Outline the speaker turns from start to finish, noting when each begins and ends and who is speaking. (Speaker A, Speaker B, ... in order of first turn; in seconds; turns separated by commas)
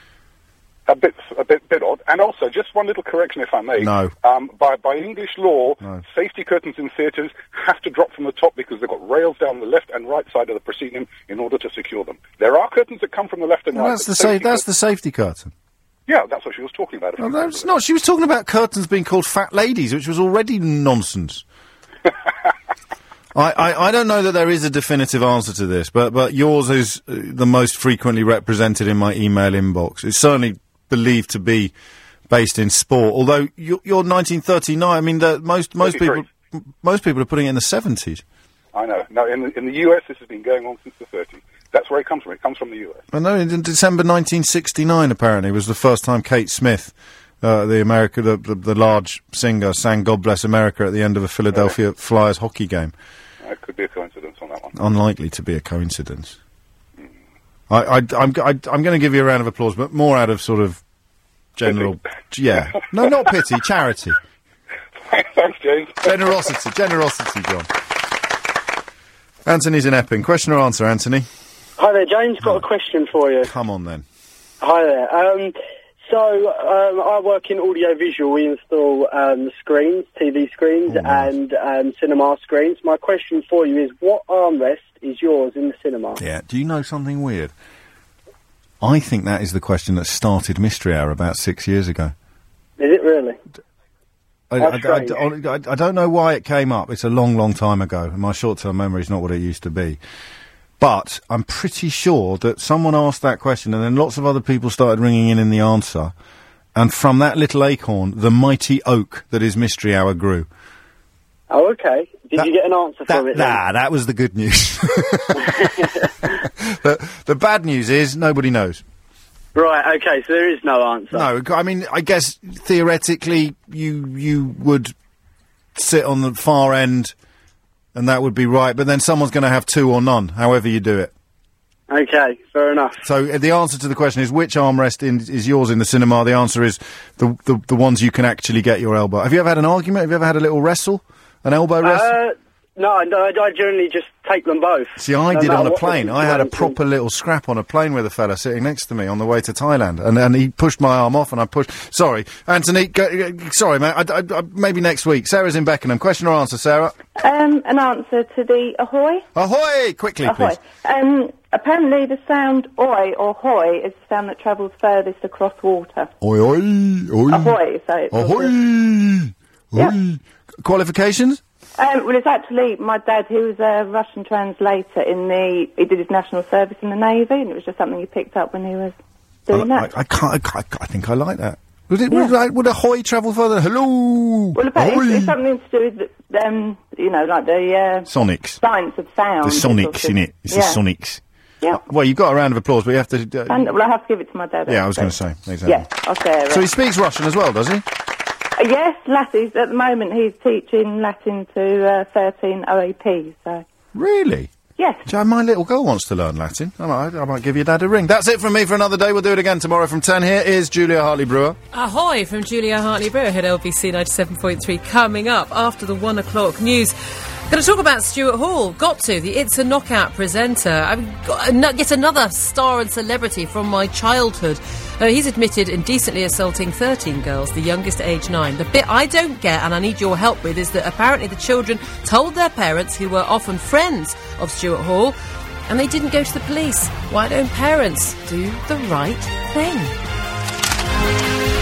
Speaker A: 0.9-14.6, Speaker B: 3.8-4.1, Speaker B: 13.7-15.5, Speaker A: 16.1-17.8, Speaker B: 17.2-21.4, Speaker B: 23.3-31.7, Speaker B: 32.3-38.2, Speaker A: 35.8-36.2, Speaker A: 38.7-43.0, Speaker B: 43.1-52.9, Speaker A: 53.4-54.7, Speaker B: 54.7-56.4, Speaker B: 57.7-60.8, Speaker B: 61.5-64.2, Speaker A: 61.6-61.9, Speaker A: 65.1-66.3, Speaker B: 66.0-67.7, Speaker B: 69.4-71.3, Speaker C: 71.8-73.5, Speaker B: 73.4-74.0, Speaker C: 74.6-75.5, Speaker C: 76.0-86.2, Speaker B: 80.9-81.3, Speaker B: 86.2-87.5, Speaker B: 88.8-92.1, Speaker C: 92.8-93.4, Speaker B: 94.5-100.0, Speaker C: 94.6-95.2, Speaker B: 100.8-106.1, Speaker B: 106.7-110.5, Speaker C: 111.5-113.6, Speaker B: 113.1-118.8, Speaker C: 115.4-115.8, Speaker C: 119.5-121.3, Speaker B: 121.1-124.9, Speaker B: 125.7-127.1, Speaker B: 127.9-131.1, Speaker C: 131.9-133.0, Speaker B: 133.0-142.1, Speaker C: 141.8-146.7, Speaker B: 145.0-156.9, Speaker D: 157.2-159.2, Speaker B: 159.3-160.6, Speaker D: 160.2-166.1, Speaker B: 166.2-167.6, Speaker D: 167.3-168.5, Speaker B: 168.1-171.4, Speaker D: 171.8-179.9, Speaker B: 179.5-185.3, Speaker D: 184.5-188.1, Speaker B: 188.1-188.6, Speaker D: 188.6-190.8, Speaker B: 189.4-193.7, Speaker D: 193.5-195.1, Speaker B: 194.7-195.9, Speaker D: 195.6-196.6, Speaker B: 196.5-197.8, Speaker D: 198.6-203.6, Speaker B: 203.9-204.5, Speaker D: 204.8-205.0, Speaker B: 205.1-211.6, Speaker E: 211.7-216.9, Speaker E: 217.5-235.2, Speaker E: 235.7-239.9